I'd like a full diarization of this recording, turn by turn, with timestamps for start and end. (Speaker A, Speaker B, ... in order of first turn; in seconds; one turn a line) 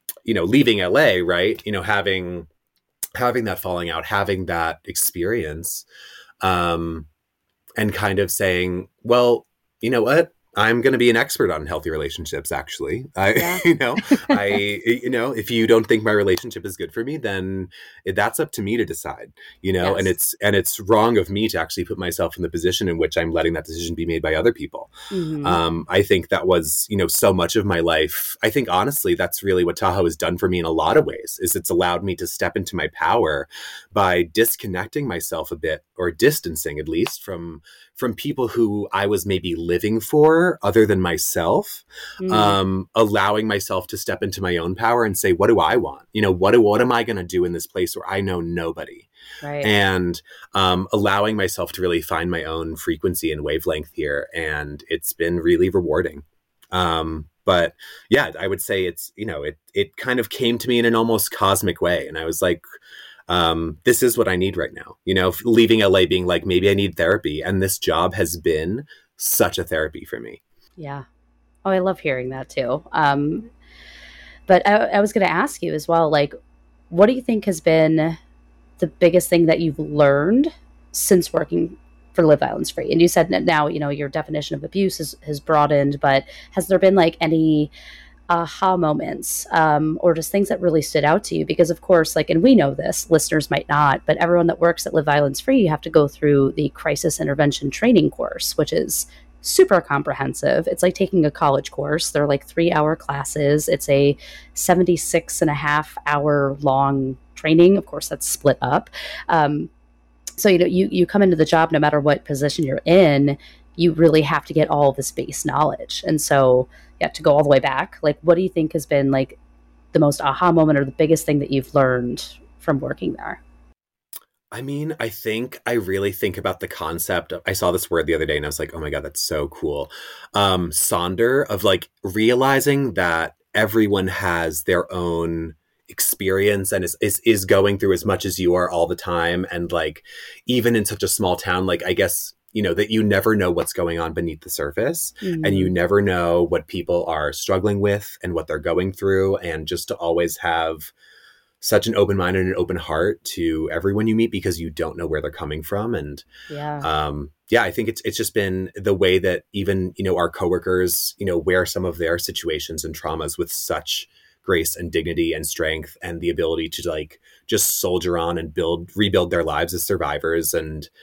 Speaker A: 0.2-2.5
Speaker A: 3.1-5.8
Speaker A: 6.4-7.1
Speaker A: 7.8-49.1
Speaker B: 13.3-14.6
Speaker B: 19.8-20.1
Speaker B: 25.1-25.6
Speaker B: 42.2-42.6
Speaker B: 49.4-49.7
Speaker A: 49.6-62.6
Speaker A: 63.3-70.4
Speaker B: 70.8-71.0
Speaker B: 71.6-73.5
Speaker B: 74.5-76.3
Speaker B: 76.9-78.2
Speaker B: 78.8-87.7
Speaker B: 88.3-109.7
Speaker B: 110.4-119.4
Speaker B: 119.9-123.4
Speaker A: 124.5-150.9
Speaker B: 145.2-145.7
Speaker A: 151.6-156.2
Speaker B: 156.5-156.9
Speaker A: 156.8-170.9